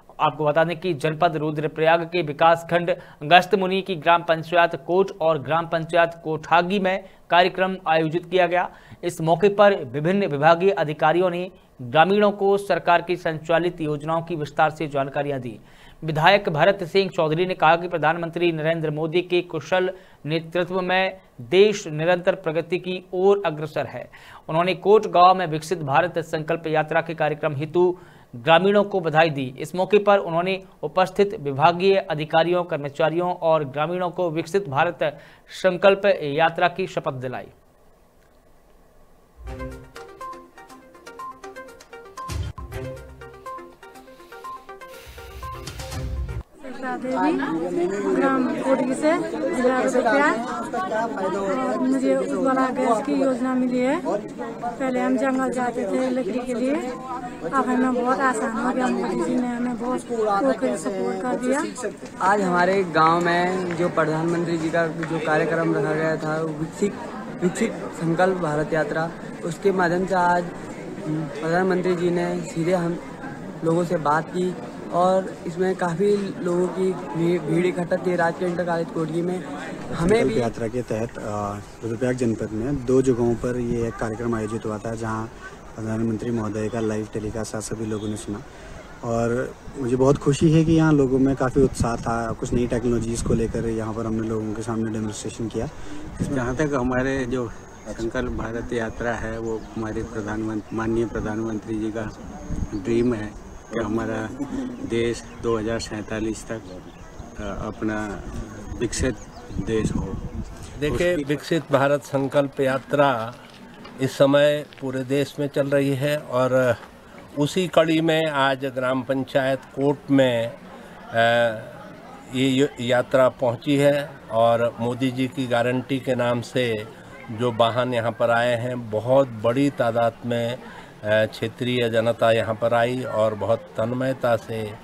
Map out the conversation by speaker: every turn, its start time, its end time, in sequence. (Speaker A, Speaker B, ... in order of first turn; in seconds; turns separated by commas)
Speaker A: 0.2-37.5, Speaker B: 46.7-47.5, Speaker B: 48.0-54.1, Speaker B: 54.8-56.9, Speaker B: 57.5-61.7, Speaker C: 62.2-70.5, Speaker C: 71.0-73.0, Speaker C: 73.6-80.5, Speaker D: 79.9-88.4, Speaker D: 89.0-95.7, Speaker D: 96.2-96.5, Speaker E: 96.3-102.1, Speaker E: 102.7-106.7, Speaker E: 107.4-110.2, Speaker F: 110.8-113.4, Speaker E: 110.9-111.4, Speaker F: 114.0-116.7, Speaker F: 117.4-120.6, Speaker F: 121.1-134.6